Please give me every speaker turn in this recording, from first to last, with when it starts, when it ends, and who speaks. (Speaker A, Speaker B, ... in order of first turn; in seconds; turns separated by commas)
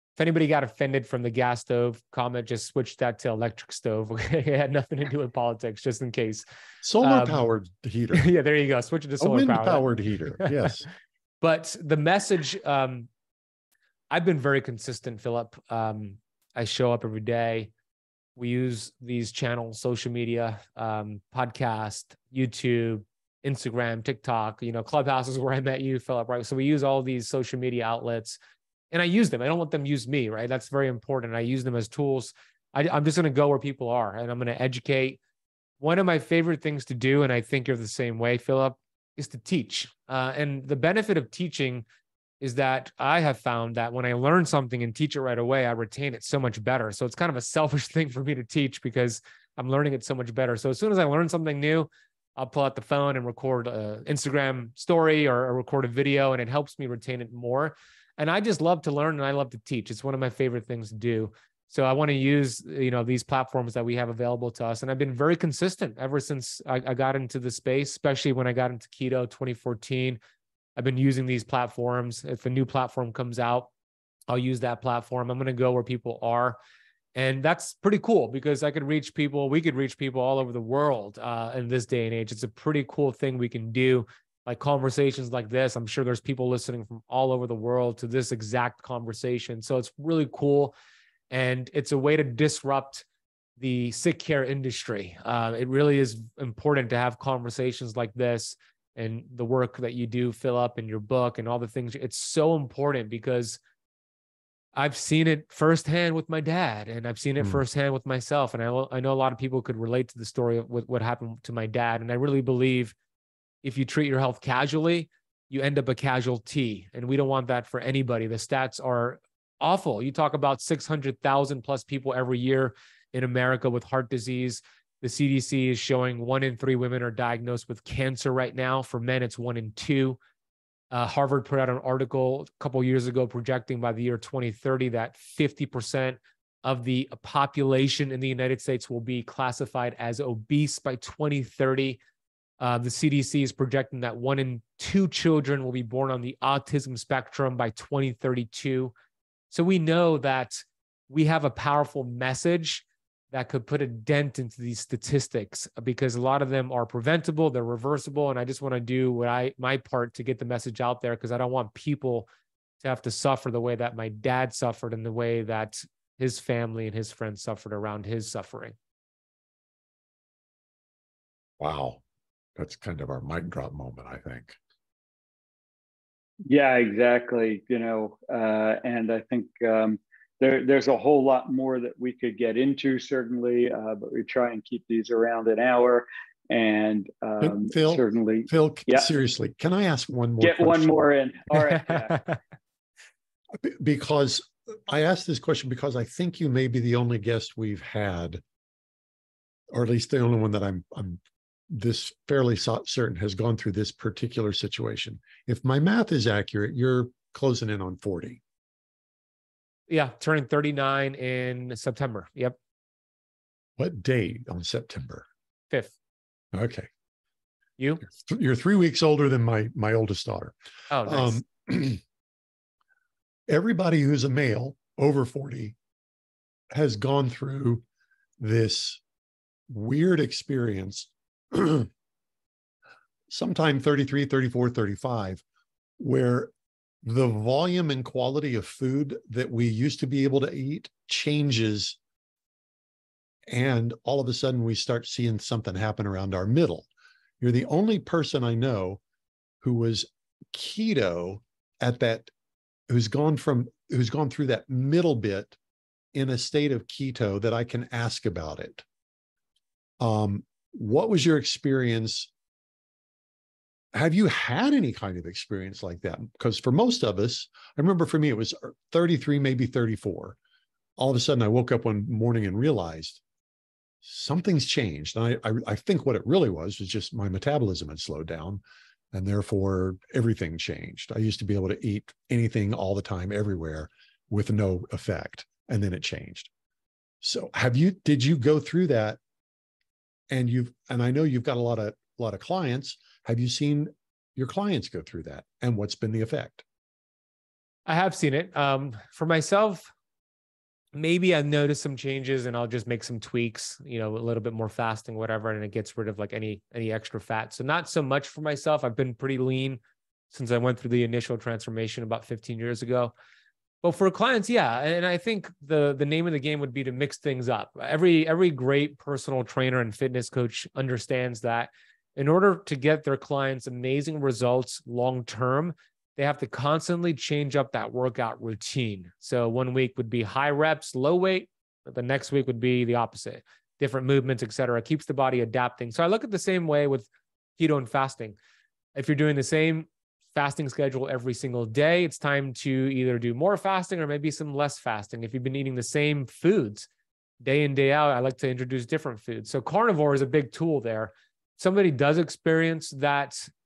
Speaker A: 0.2-6.4, Speaker B: 6.8-8.3, Speaker A: 7.0-7.4, Speaker A: 8.1-9.9, Speaker B: 9.2-10.9, Speaker A: 10.4-10.7, Speaker A: 11.4-13.1, Speaker A: 14.1-17.7, Speaker A: 18.4-28.4, Speaker A: 28.9-35.2, Speaker A: 35.8-41.9, Speaker A: 42.4-70.2, Speaker A: 70.8-73.7, Speaker A: 74.3-76.6, Speaker A: 77.2-90.7, Speaker A: 91.3-93.0, Speaker A: 93.6-103.6, Speaker A: 104.7-112.9, Speaker A: 113.6-130.2, Speaker A: 130.9-142.0, Speaker A: 142.6-148.9, Speaker A: 149.5-162.3, Speaker A: 162.8-168.7, Speaker B: 171.6-172.0, Speaker B: 172.6-174.6, Speaker C: 176.4-189.1, Speaker B: 187.4-190.9, Speaker C: 190.4-192.2, Speaker A: 191.7-192.4, Speaker B: 193.5-198.4, Speaker B: 199.7-208.4, Speaker A: 209.9-212.6, Speaker B: 213.8-215.2, Speaker B: 216.5-216.9, Speaker A: 217.8-218.0, Speaker B: 218.0-220.5, Speaker A: 220.9-221.4, Speaker B: 221.0-222.0, Speaker B: 223.5-225.8, Speaker B: 226.7-227.8, Speaker B: 228.4-229.0, Speaker B: 229.7-231.9, Speaker B: 233.3-235.4, Speaker B: 236.0-236.5, Speaker B: 237.0-242.0, Speaker B: 243.5-246.9, Speaker B: 247.4-249.0, Speaker B: 249.6-252.3, Speaker B: 252.9-255.6, Speaker B: 256.1-258.8, Speaker B: 260.0-262.3, Speaker B: 263.9-270.4, Speaker B: 271.0-273.2, Speaker B: 274.0-278.6, Speaker B: 279.1-286.5, Speaker B: 287.2-289.2, Speaker B: 290.3-296.6, Speaker A: 297.9-299.9, Speaker A: 300.9-313.1, Speaker A: 313.8-338.4, Speaker A: 338.9-346.9, Speaker A: 347.4-353.5